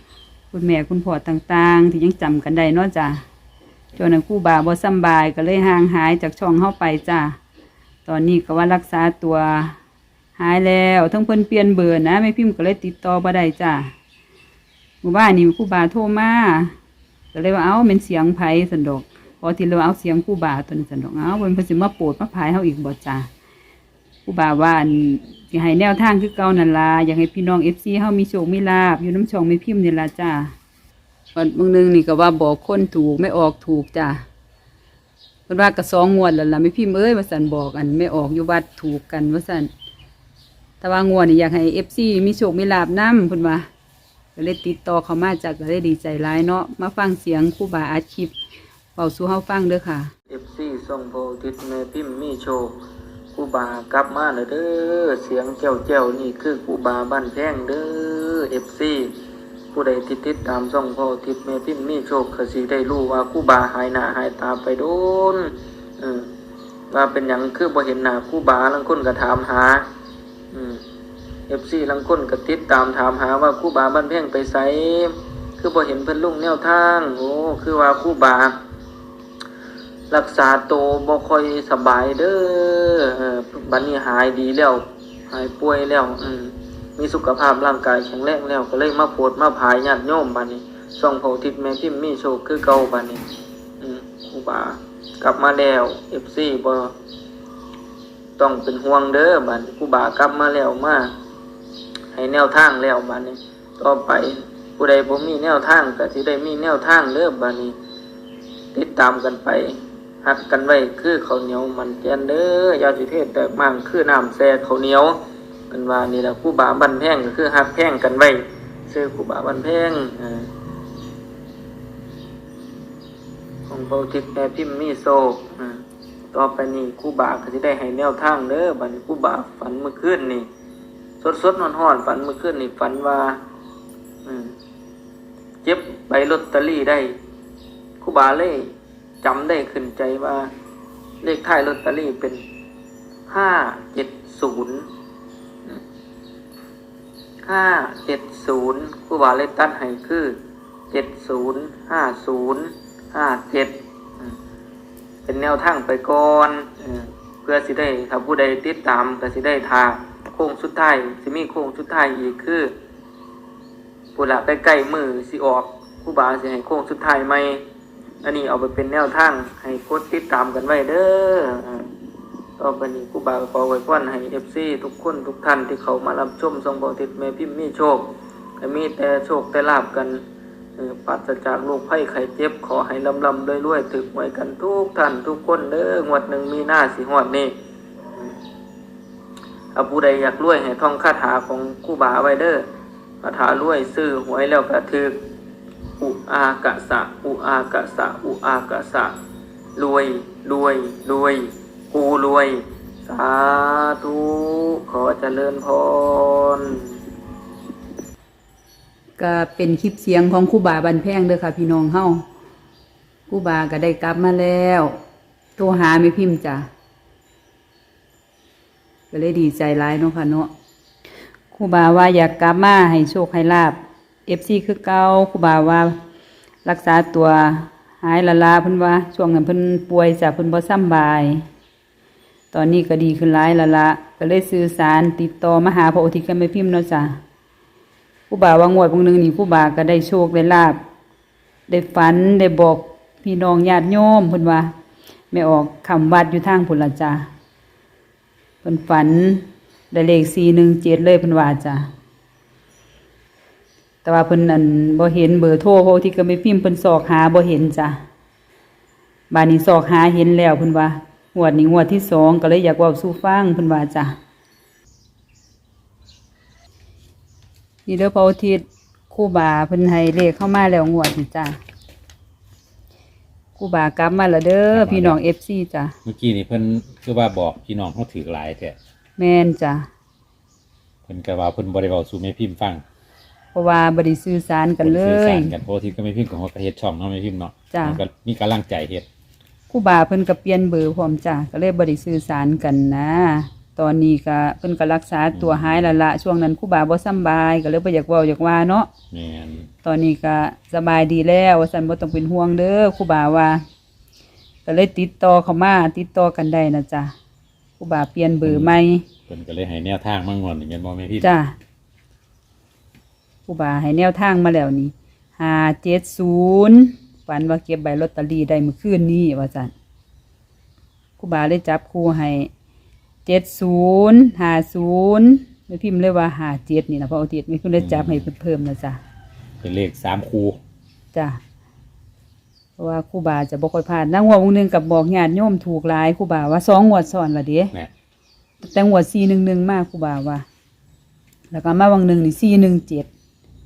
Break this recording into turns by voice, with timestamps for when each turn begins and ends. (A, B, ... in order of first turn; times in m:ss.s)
0:00.5-0:03.2 A
0:04.0-0:07.4 A
0:08.0-0:09.8 A
0:10.4-0:13.9 A
0:15.0-0:16.7 A
0:17.3-0:23.3 A
0:24.3-0:30.5 A
0:31.4-0:34.2 A
0:35.5-0:39.7 A
0:40.8-0:43.7 A
0:44.4-0:48.3 A
0:49.0-0:50.1 A
0:50.3-0:52.8 B
0:53.3-0:59.2 B
0:59.7-1:06.3 B
1:06.9-1:09.8 B
1:10.5-1:10.8 B
1:11.5-1:18.6 B
1:20.1-1:33.2 B
1:33.8-1:36.9 B
1:38.4-1:41.1 B
1:42.1-1:47.8 B
1:48.7-1:49.7 B
1:50.2-1:55.2 B
1:55.7-2:00.5 B
2:03.7-2:05.8 B
2:06.3-2:10.5 B
2:11.2-2:13.4 B
2:14.3-2:14.5 B
2:15.6-2:17.2 B
2:18.0-2:20.5 B
2:21.2-2:22.4 B
2:23.3-2:24.9 B
2:27.4-2:30.4 B
2:30.9-2:34.4 B
2:35.3-2:42.7 B
2:44.2-2:47.6 B
2:48.2-2:51.9 B
2:52.6-3:00.2 B
3:00.8-3:07.5 B
3:09.8-3:12.6 B
3:13.2-3:15.2 B
3:16.0-3:19.2 B
3:19.8-3:26.6 B
3:29.2-3:32.2 A
3:33.3-3:34.9 A
3:35.6-3:36.7 A
3:39.1-3:40.5 A
3:41.5-3:46.0 A
3:46.6-3:51.4 A
3:52.5-3:57.2 A
3:58.3-4:00.8 A
4:01.7-4:04.7 A
4:05.3-4:07.3 A
4:08.6-4:11.9 A
4:14.0-4:18.0 A
4:19.3-4:24.1 A
4:27.9-4:31.6 A
4:33.6-4:35.9 A
4:34.7-4:35.2 C
4:36.0-4:38.8 C
4:39.2-4:39.9 A
4:41.1-4:42.8 C
4:43.5-4:45.5 A
4:44.8-4:49.1 C
4:47.7-4:48.0 A
4:49.7-4:58.9 A
4:55.4-4:55.9 C
4:59.1-4:59.7 C
4:59.8-5:03.6 A
5:04.7-5:07.1 A
5:07.8-5:09.0 A
5:08.4-5:08.7 C
5:09.3-5:11.3 C
5:11.2-5:11.5 A
5:13.5-5:19.7 A
5:21.2-5:22.5 A
5:23.2-5:29.0 A
5:27.8-5:28.3 C
5:29.6-5:30.6 C
5:31.1-5:31.4 A
5:32.8-5:37.7 A
5:38.6-5:40.4 A
5:41.5-5:43.1 A